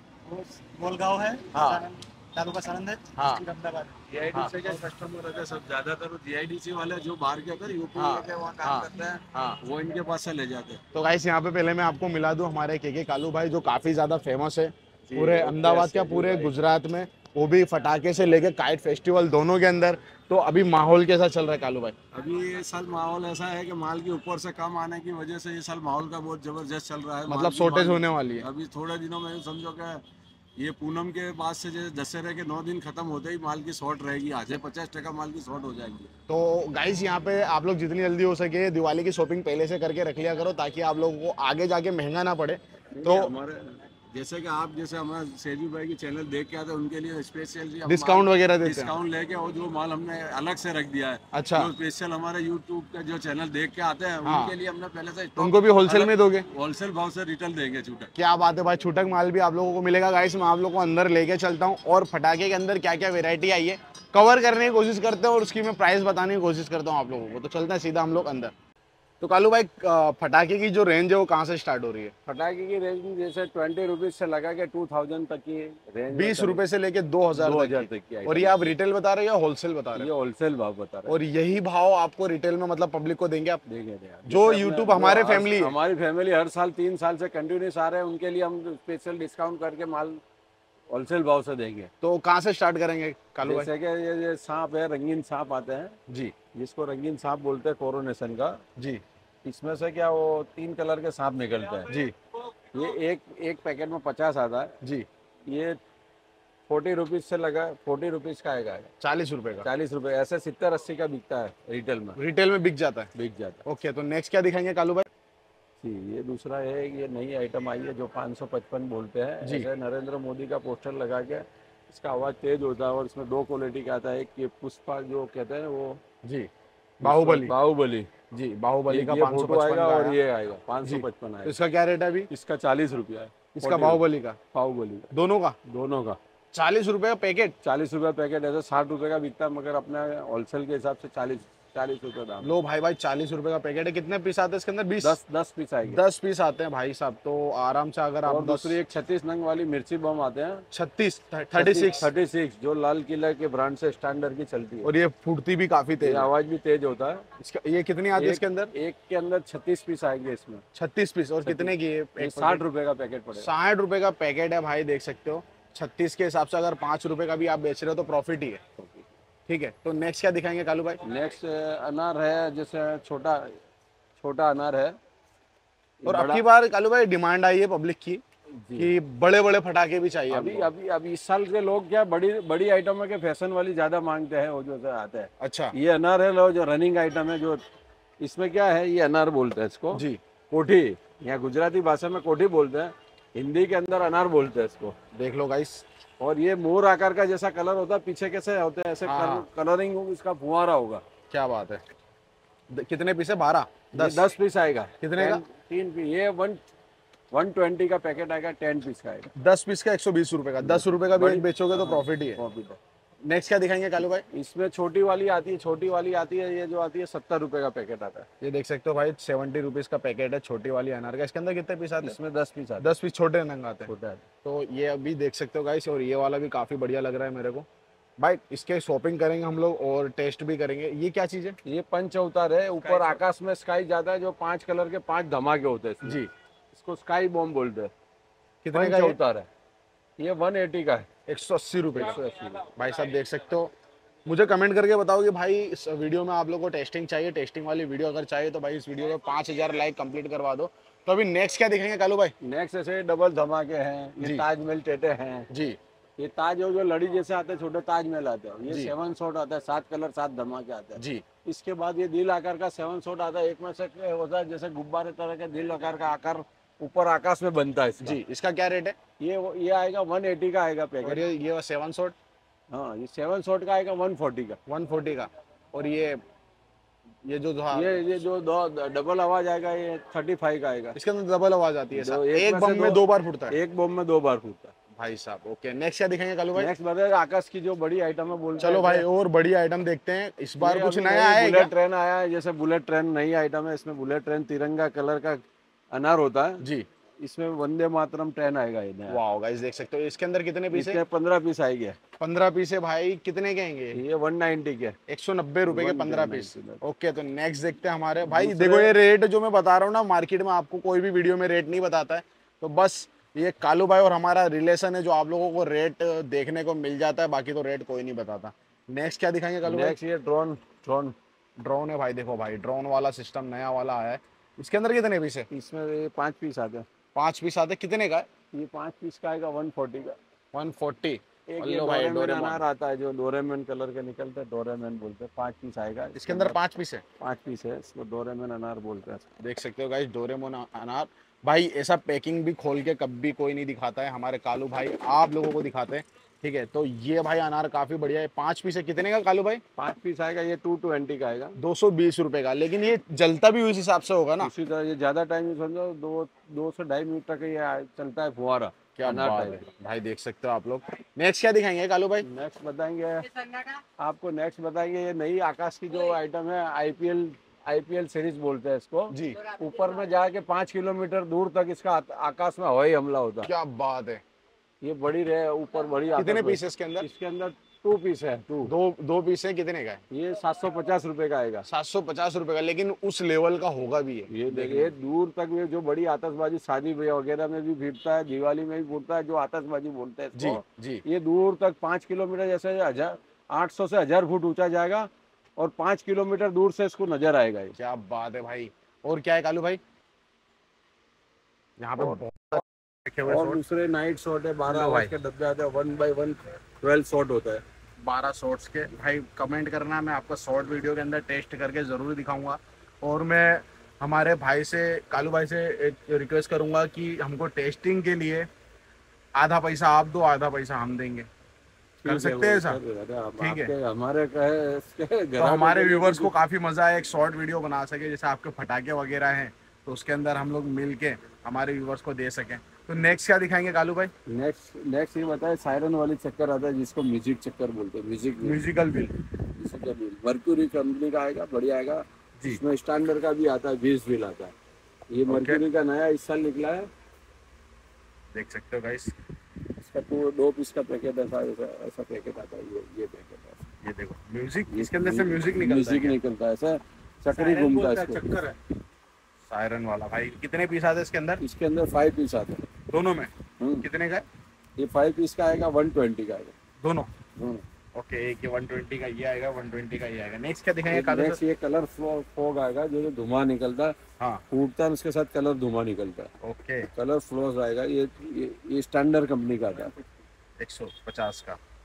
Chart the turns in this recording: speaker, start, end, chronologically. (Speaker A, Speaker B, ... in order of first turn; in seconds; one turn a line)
Speaker A: 0.3-4.1
Speaker B: 1.5-1.9
Speaker B: 3.1-3.5
Speaker C: 4.1-10.8
Speaker B: 8.0-9.6
Speaker B: 10.9-21.9
Speaker C: 15.1-16.5
Speaker C: 22.1-30.0
Speaker B: 27.3-28.5
Speaker C: 30.6-36.1
Speaker B: 36.3-43.3
Speaker C: 43.0-58.1
Speaker B: 47.9-49.0
Speaker B: 51.3-51.7
Speaker B: 54.2-54.6
Speaker B: 55.4-56.5
Speaker B: 58.2-68.5
Speaker B: 69.2-72.1
Speaker C: 72.3-76.6
Speaker B: 76.1-80.1
Speaker C: 77.3-78.7
Speaker C: 80.0-81.1
Speaker B: 81.1-83.6
Speaker C: 83.7-90.2
Speaker B: 84.3-85.7
Speaker C: 90.9-91.9
Speaker B: 92.0-93.7
Speaker C: 93.4-96.0
Speaker C: 96.5-98.6
Speaker C: 99.4-101.9
Speaker B: 101.9-102.1
Speaker C: 102.7-104.8
Speaker B: 104.8-105.1
Speaker C: 105.5-105.8
Speaker C: 106.7-108.9
Speaker B: 109.0-109.7
Speaker C: 109.6-112.2
Speaker B: 112.2-113.1
Speaker C: 113.2-113.6
Speaker B: 113.7-115.1
Speaker C: 115.8-126.0
Speaker B: 119.4-119.7
Speaker B: 127.0-127.5
Speaker C: 127.0-128.1
Speaker B: 128.3-130.2
Speaker C: 128.9-131.6
Speaker B: 130.8-132.3
Speaker C: 132.3-135.1
Speaker B: 133.6-134.4
Speaker B: 135.1-135.6
Speaker C: 135.7-136.2
Speaker B: 136.5-137.5
Speaker C: 137.6-142.5
Speaker B: 142.4-145.2
Speaker C: 145.0-146.0
Speaker B: 145.9-148.8
Speaker C: 148.2-150.7
Speaker B: 150.7-152.1
Speaker C: 151.5-154.9
Speaker B: 154.8-156.3
Speaker C: 156.0-157.2
Speaker B: 157.4-158.7
Speaker C: 158.2-160.6
Speaker B: 160.8-162.6
Speaker C: 161.4-163.5
Speaker B: 163.3-168.6
Speaker C: 168.8-169.1
Speaker B: 169.5-171.0
Speaker C: 171.0-173.6
Speaker C: 174.2-175.0
Speaker C: 176.0-176.5
Speaker B: 176.1-178.2
Speaker C: 178.6-178.9
Speaker B: 178.8-180.7
Speaker C: 180.3-187.6
Speaker B: 185.4-185.8
Speaker C: 188.2-195.0
Speaker B: 189.9-190.2
Speaker B: 195.1-195.8
Speaker C: 196.2-201.0
Speaker B: 199.0-199.5
Speaker B: 201.3-201.8
Speaker B: 202.7-204.3
Speaker C: 203.9-206.6
Speaker B: 205.0-205.4
Speaker C: 207.3-209.3
Speaker B: 209.4-212.4
Speaker C: 210.6-212.8
Speaker B: 213.2-214.2
Speaker C: 214.3-218.3
Speaker B: 218.4-222.2
Speaker C: 222.0-222.9
Speaker B: 222.8-223.9
Speaker C: 223.9-224.2
Speaker B: 224.4-227.7
Speaker B: 228.2-231.6
Speaker C: 231.7-236.2
Speaker B: 236.0-236.3
Speaker C: 236.7-237.9
Speaker B: 238.6-239.2
Speaker C: 238.7-239.5
Speaker C: 240.2-241.1
Speaker B: 241.3-243.7
Speaker C: 241.9-242.7
Speaker B: 244.3-252.3
Speaker C: 252.4-255.5
Speaker B: 255.5-255.8
Speaker C: 256.2-268.2
Speaker B: 261.0-261.2
Speaker B: 268.0-269.0
Speaker C: 269.2-271.2
Speaker B: 271.0-272.1
Speaker C: 272.7-274.6
Speaker B: 274.7-276.2
Speaker B: 277.3-278.0
Speaker C: 277.7-281.0
Speaker B: 280.9-283.6
Speaker C: 281.9-284.7
Speaker B: 285.0-286.7
Speaker C: 286.6-289.1
Speaker B: 288.6-291.7
Speaker C: 290.6-296.6
Speaker C: 297.2-299.2
Speaker B: 299.1-301.0
Speaker C: 300.7-302.0
Speaker B: 302.2-304.0
Speaker C: 303.9-305.0
Speaker B: 305.1-320.0
Speaker C: 305.7-306.8
Speaker C: 308.2-308.9
Speaker C: 319.6-321.1
Speaker B: 321.6-325.5
Speaker C: 325.5-326.9
Speaker B: 327.1-328.3
Speaker C: 328.5-330.2
Speaker B: 330.5-332.6
Speaker C: 331.5-336.6
Speaker B: 336.2-337.0
Speaker C: 337.2-339.3
Speaker B: 339.4-349.6
Speaker C: 349.8-351.6
Speaker B: 351.6-354.5
Speaker C: 354.4-359.7
Speaker B: 359.0-362.3
Speaker C: 362.2-373.5
Speaker B: 369.1-369.4
Speaker B: 373.4-374.2
Speaker C: 374.8-378.7
Speaker B: 376.2-377.1
Speaker B: 378.7-380.0
Speaker C: 380.1-381.7
Speaker B: 381.7-384.9
Speaker C: 384.3-397.8
Speaker B: 390.4-391.0
Speaker B: 397.8-399.8
Speaker B: 401.8-403.6
Speaker C: 402.0-402.2
Speaker C: 403.2-407.6
Speaker B: 404.7-405.1
Speaker B: 408.0-418.5
Speaker B: 419.4-421.3
Speaker B: 422.0-422.8
Speaker C: 422.0-426.3
Speaker B: 423.4-423.7
Speaker B: 425.4-434.1
Speaker C: 434.3-438.7
Speaker B: 438.4-439.2
Speaker C: 439.6-444.5
Speaker C: 445.1-446.9
Speaker B: 445.3-445.6
Speaker B: 448.3-449.1
Speaker C: 449.8-453.6
Speaker B: 453.8-456.2
Speaker C: 454.7-458.4
Speaker B: 457.3-458.6
Speaker B: 459.5-461.4
Speaker C: 461.4-462.7
Speaker B: 462.9-464.2
Speaker C: 463.6-463.9
Speaker C: 464.8-466.5
Speaker B: 466.8-467.1
Speaker C: 467.4-467.6
Speaker B: 467.9-471.4
Speaker C: 470.9-474.0
Speaker C: 474.5-476.3
Speaker B: 476.4-476.9
Speaker C: 477.0-479.9
Speaker B: 480.6-481.6